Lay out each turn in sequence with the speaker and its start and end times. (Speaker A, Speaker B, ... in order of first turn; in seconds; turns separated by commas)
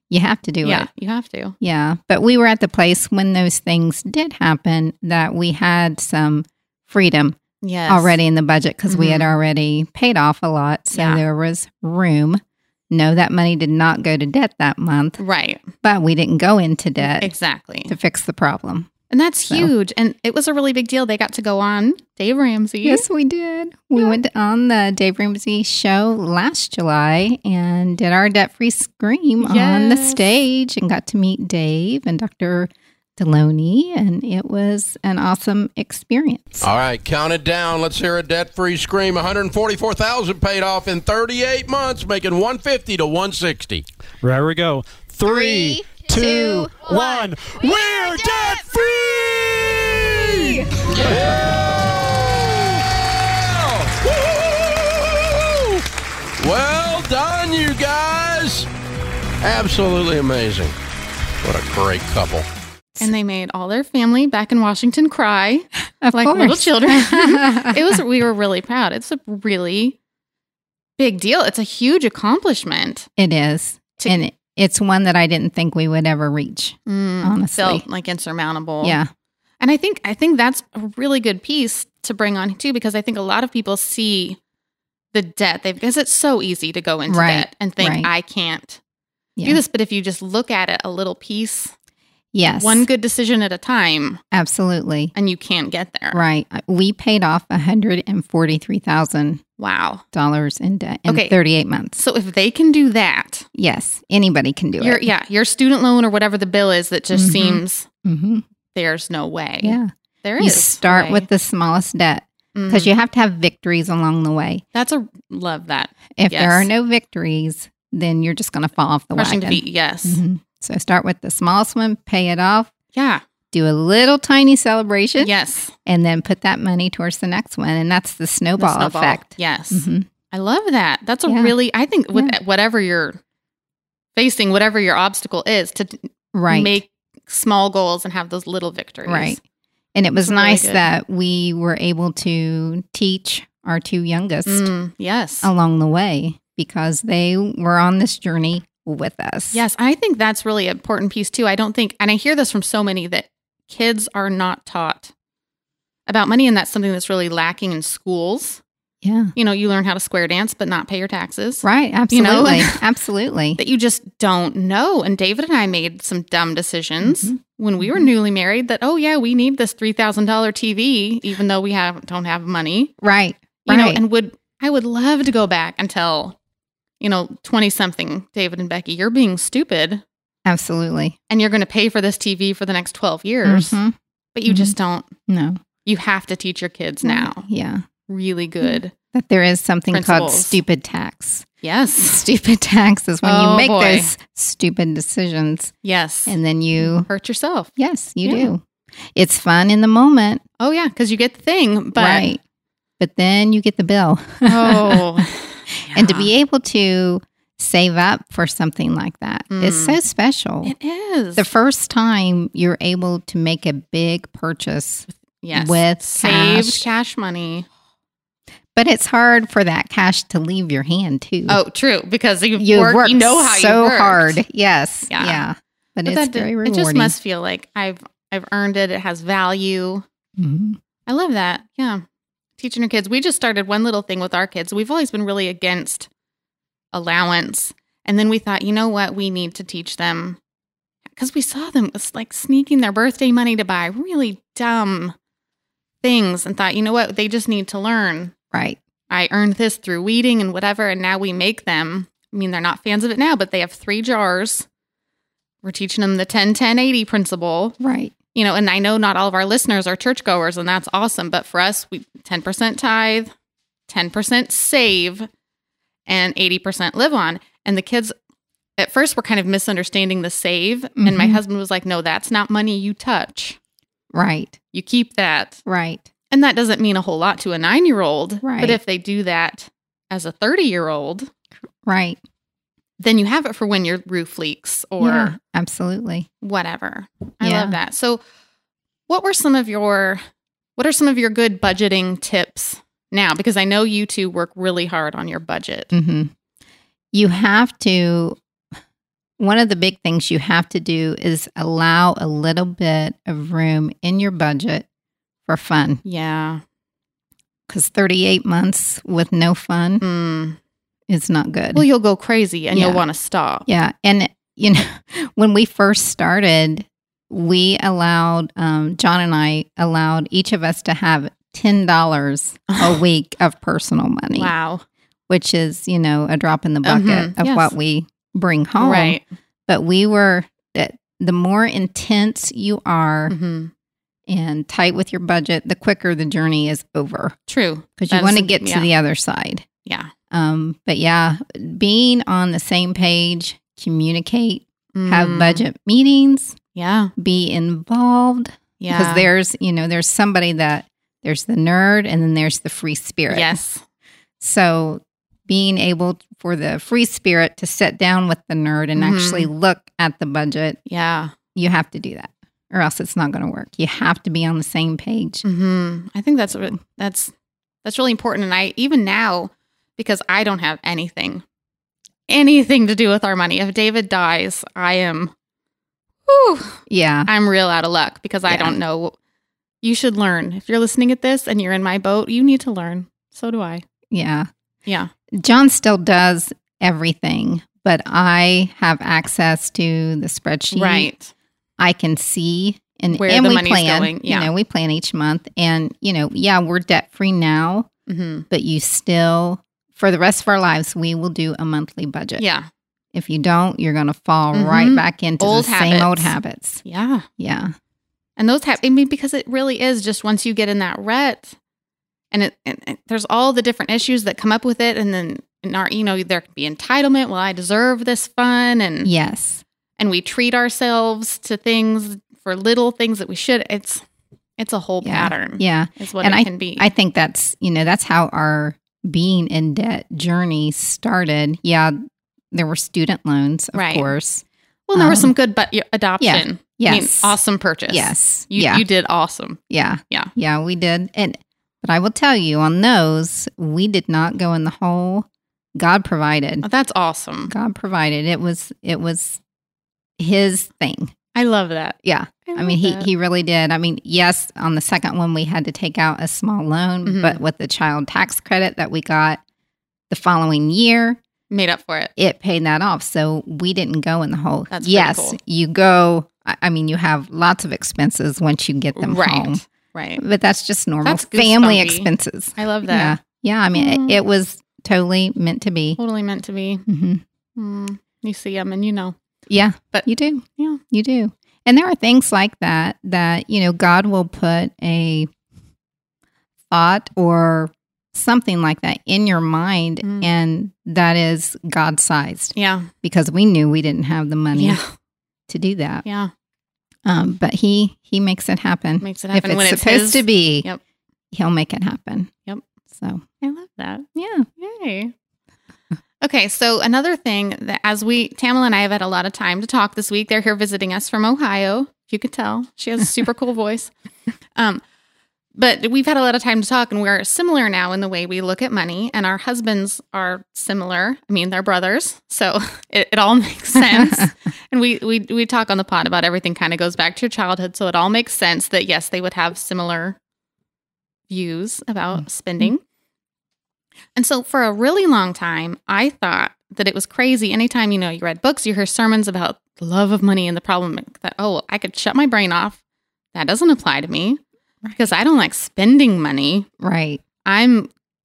Speaker A: 0.1-0.9, Speaker B: 0.6-1.5, Speaker A: 1.6-15.2, Speaker B: 7.6-8.2, Speaker B: 8.9-9.3, Speaker B: 10.9-11.2, Speaker B: 15.2-15.7, Speaker A: 15.8-17.3, Speaker B: 17.0-17.9, Speaker A: 17.9-18.9, Speaker B: 19.1-23.0, Speaker A: 22.8-36.7, Speaker B: 29.4-30.4, Speaker C: 36.6-43.8, Speaker D: 44.2-48.7, Speaker A: 45.2-48.6, Speaker C: 47.6-55.8, Speaker C: 56.4-58.7, Speaker C: 59.4-60.7, Speaker C: 61.4-62.5, Speaker B: 63.0-70.0, Speaker A: 66.0-68.0, Speaker B: 71.0-73.1, Speaker A: 73.2-77.8, Speaker B: 76.8-79.0, Speaker A: 78.8-79.1, Speaker B: 79.6-84.4, Speaker B: 85.1-88.8, Speaker A: 87.1-88.1, Speaker B: 89.4-91.7, Speaker A: 92.3-92.9, Speaker B: 92.6-94.2, Speaker A: 94.3-95.1, Speaker B: 95.2-96.2, Speaker A: 96.1-99.4, Speaker B: 99.6-100.0, Speaker A: 100.1-102.0, Speaker B: 101.1-101.3, Speaker B: 102.0-103.5, Speaker A: 103.5-105.1, Speaker B: 104.8-107.9, Speaker A: 107.1-108.4, Speaker B: 108.7-111.3, Speaker A: 109.6-114.6, Speaker B: 112.5-112.9, Speaker B: 114.7-116.7, Speaker A: 116.2-122.7, Speaker B: 119.2-120.2, Speaker B: 122.9-123.2, Speaker A: 123.5-125.3, Speaker B: 125.2-125.7, Speaker A: 125.8-130.1, Speaker B: 128.6-133.2, Speaker A: 131.3-131.5, Speaker B: 134.2-139.4, Speaker A: 136.3-136.8, Speaker A: 139.0-139.4, Speaker A: 139.9-144.7, Speaker B: 140.2-140.8, Speaker B: 144.5-145.5, Speaker A: 145.4-149.6, Speaker B: 149.5-155.1, Speaker B: 156.1-158.6, Speaker A: 159.0-159.3, Speaker B: 159.3-162.8, Speaker A: 161.6-163.6, Speaker B: 163.6-172.9, Speaker A: 167.0-168.1, Speaker A: 173.0-174.0, Speaker B: 173.7-176.4, Speaker B: 177.0-180.0, Speaker A: 180.5-181.2, Speaker B: 181.3-183.8, Speaker A: 183.4-183.9, Speaker B: 184.3-185.1, Speaker A: 184.5-184.7, Speaker A: 185.3-185.6, Speaker B: 185.8-187.5, Speaker A: 187.0-187.8, Speaker B: 188.1-188.9, Speaker A: 188.6-191.5, Speaker B: 189.9-190.6, Speaker B: 191.6-192.3, Speaker A: 192.0-195.7, Speaker B: 193.2-194.1, Speaker B: 195.8-197.7, Speaker A: 196.3-197.1, Speaker A: 197.8-200.4, Speaker B: 198.2-198.5, Speaker B: 200.6-202.3, Speaker A: 201.9-202.4, Speaker A: 203.0-210.7, Speaker B: 204.5-206.3, Speaker B: 209.5-210.0, Speaker B: 210.6-211.5, Speaker A: 211.3-216.8, Speaker B: 215.4-217.7, Speaker A: 218.7-221.6, Speaker B: 221.5-224.4, Speaker A: 222.6-227.1, Speaker B: 225.1-225.4, Speaker B: 226.1-230.0, Speaker A: 230.4-230.8, Speaker B: 231.1-232.0, Speaker B: 232.6-236.1, Speaker B: 236.9-240.4, Speaker B: 241.2-245.2, Speaker B: 246.0-248.3, Speaker A: 248.5-248.8, Speaker B: 249.1-254.7, Speaker B: 255.6-257.8, Speaker A: 257.8-258.1, Speaker B: 258.3-263.3, Speaker B: 263.9-265.3, Speaker B: 266.1-268.1, Speaker B: 268.8-273.6, Speaker A: 271.0-271.4, Speaker A: 274.1-274.6, Speaker B: 274.7-275.6, Speaker A: 275.6-276.1, Speaker B: 276.3-281.3, Speaker A: 278.4-278.8, Speaker A: 281.9-282.2, Speaker B: 283.0-285.3, Speaker A: 285.0-286.3, Speaker B: 286.4-288.2, Speaker A: 287.4-287.8, Speaker B: 289.1-290.2, Speaker B: 290.8-295.9, Speaker A: 295.9-296.3, Speaker A: 297.1-298.4, Speaker A: 299.4-304.9, Speaker A: 305.5-306.0, Speaker B: 306.0-306.6, Speaker A: 307.7-310.0, Speaker B: 310.0-310.6, Speaker A: 311.1-311.9, Speaker B: 311.7-313.6, Speaker A: 312.7-313.0, Speaker A: 313.6-324.5, Speaker B: 322.7-323.0, Speaker B: 324.3-324.8, Speaker A: 325.3-333.3, Speaker B: 326.8-327.7, Speaker B: 328.8-329.2, Speaker B: 333.3-333.7, Speaker A: 334.3-337.4, Speaker B: 337.5-338.9, Speaker A: 338.0-339.6, Speaker B: 339.9-340.1, Speaker A: 340.3-346.6, Speaker B: 344.9-345.6, Speaker B: 346.8-347.1, Speaker A: 347.1-353.6, Speaker B: 348.8-349.3, Speaker B: 353.3-353.8, Speaker A: 354.4-360.8, Speaker B: 358.9-359.5, Speaker B: 360.9-361.3, Speaker A: 361.5-365.4, Speaker B: 365.4-367.3, Speaker B: 367.8-371.4, Speaker B: 372.3-375.3, Speaker B: 376.2-379.1, Speaker A: 376.9-377.3, Speaker A: 378.5-378.8, Speaker B: 379.8-383.8, Speaker A: 384.1-384.5, Speaker B: 384.9-385.1, Speaker A: 385.3-391.1, Speaker B: 390.7-391.3, Speaker A: 391.8-397.9, Speaker B: 393.1-394.5, Speaker B: 398.1-398.5, Speaker A: 398.5-402.4, Speaker B: 402.4-402.7, Speaker A: 403.1-406.8, Speaker B: 404.5-407.2, Speaker A: 407.4-407.7, Speaker B: 408.4-411.5, Speaker B: 412.3-419.1, Speaker A: 419.0-419.6, Speaker B: 420.0-424.0, Speaker B: 424.6-426.9, Speaker A: 425.0-432.0, Speaker A: 432.5-435.3, Speaker B: 433.7-434.1, Speaker B: 434.9-440.3, Speaker A: 436.2-437.4, Speaker A: 437.9-438.9, Speaker A: 439.7-446.6, Speaker B: 446.6-447.5, Speaker A: 447.5-449.4, Speaker A: 450.2-451.1, Speaker B: 451.3-453.1, Speaker A: 452.0-459.4, Speaker B: 457.0-457.4, Speaker A: 460.1-461.2, Speaker B: 461.5-462.1, Speaker A: 462.2-469.6, Speaker B: 464.7-465.4, Speaker B: 468.9-470.2, Speaker A: 470.2-476.0, Speaker B: 471.0-473.2, Speaker B: 473.7-474.2, Speaker B: 476.0-476.9, Speaker A: 476.9-477.2, Speaker B: 477.6-479.1, Speaker A: 479.5-485.3, Speaker A: 486.7-494.8, Speaker B: 490.0-490.3, Speaker B: 492.5-492.9, Speaker B: 494.5-494.9, Speaker A: 495.5-496.0, Speaker B: 496.0-496.3, Speaker A: 497.0-500.7, Speaker B: 499.0-500.8, Speaker A: 501.3-502.3, Speaker A: 502.9-503.2, Speaker B: 503.4-504.1, Speaker A: 504.1-504.5, Speaker B: 504.6-505.1, Speaker B: 506.2-513.9, Speaker B: 514.5-514.8, Speaker B: 515.5-530.2, Speaker A: 523.9-524.3, Speaker B: 531.3-532.8, Speaker B: 534.1-542.8, Speaker B: 543.3-546.7, Speaker A: 546.8-547.2, Speaker B: 547.4-547.9